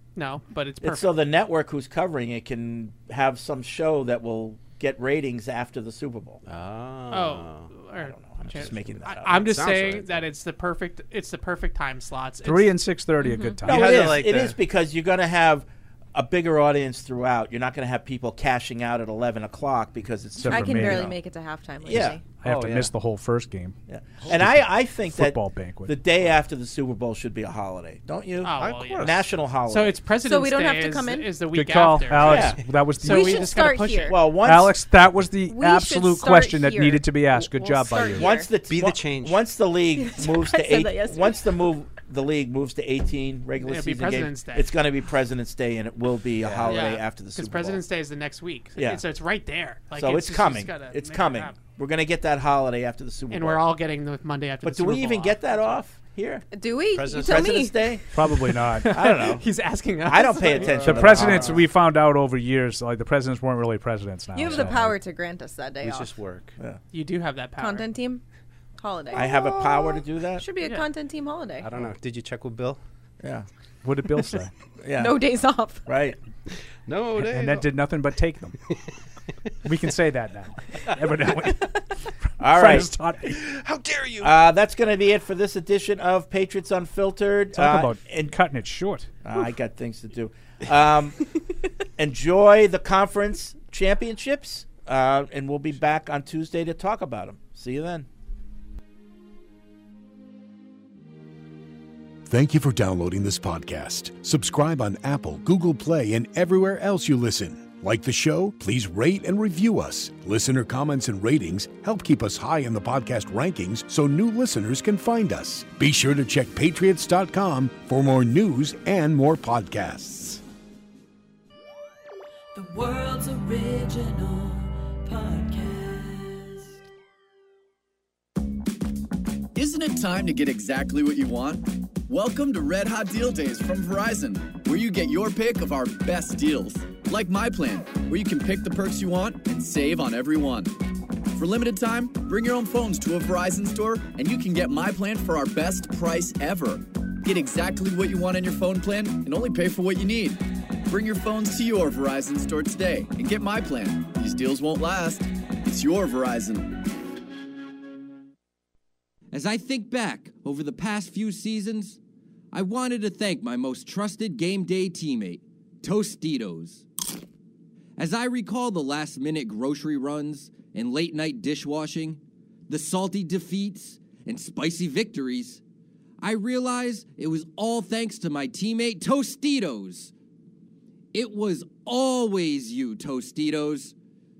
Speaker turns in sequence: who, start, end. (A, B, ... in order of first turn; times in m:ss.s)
0:00.2-0:01.1 A
0:00.8-0:06.4 B
0:06.4-0:07.7 C
0:07.1-0:12.8 A
0:08.0-0:09.5 B
0:09.3-0:10.3 C
0:12.4-0:14.1 D
0:13.2-0:13.6 E
0:13.6-0:14.6 C
0:13.6-0:21.1 B
0:20.4-0:21.1 D
0:20.5-0:22.2 E
0:21.8-0:22.2 B
0:22.4-0:23.8 D
0:22.4-0:22.9 C
0:23.9-0:30.0 B
0:24.3-0:25.9 D
0:28.4-0:29.1 A
0:28.6-0:29.2 C
0:29.7-0:34.2 A
0:30.2-0:31.3 E
0:31.5-0:33.4 D
0:32.2-0:32.6 B
0:33.0-0:34.2 E
0:34.1-0:34.8 B
0:34.4-0:38.3 D
0:35.4-0:38.5 E
0:38.1-0:47.8 B
0:38.7-0:39.4 C
0:39.9-0:41.7 E
0:43.6-0:44.7 A
0:46.4-0:46.9 C
0:46.6-0:51.6 A
0:48.8-0:49.0 B
0:49.9-0:53.6 B
0:53.3-0:55.6 A
0:54.6-0:56.4 B
0:56.5-0:57.9 E
0:56.9-0:57.6 C
0:57.1-0:58.0 B
0:58.1-0:58.9 D
0:58.4-1:01.5 A
0:58.9-0:59.4 B
1:00.0-1:01.6 B
1:00.8-1:04.9 D
1:04.3-1:06.1 E
1:05.8-1:06.5 C
1:06.9-1:07.9 A
1:07.6-1:08.2 E
1:08.8-1:11.7 E
1:09.1-1:10.4 B
1:09.3-1:09.8 C
1:11.6-1:12.8 C
1:13.2-1:13.5 B
1:13.8-1:14.5 D
1:14.8-1:15.2 B
1:14.9-1:15.8 E
1:15.8-1:16.2 B
1:16.9-1:17.7 C
1:17.2-1:18.6 D
1:19.6-1:23.4 D
1:22.4-1:22.9 B
1:23.4-1:24.3 C
1:24.2-1:28.4 B
1:27.5-1:29.1 D
1:29.2-1:31.2 B
1:32.0-1:38.1 B
1:42.2-2:00.4 F
2:02.5-2:06.8 G
2:09.5-2:20.8 H
2:21.3-2:36.8 H
2:39.3-2:42.0 I
2:42.5-2:46.9 I
2:48.0-2:55.6 I
2:56.2-3:00.1 I
3:01.1-3:03.9 I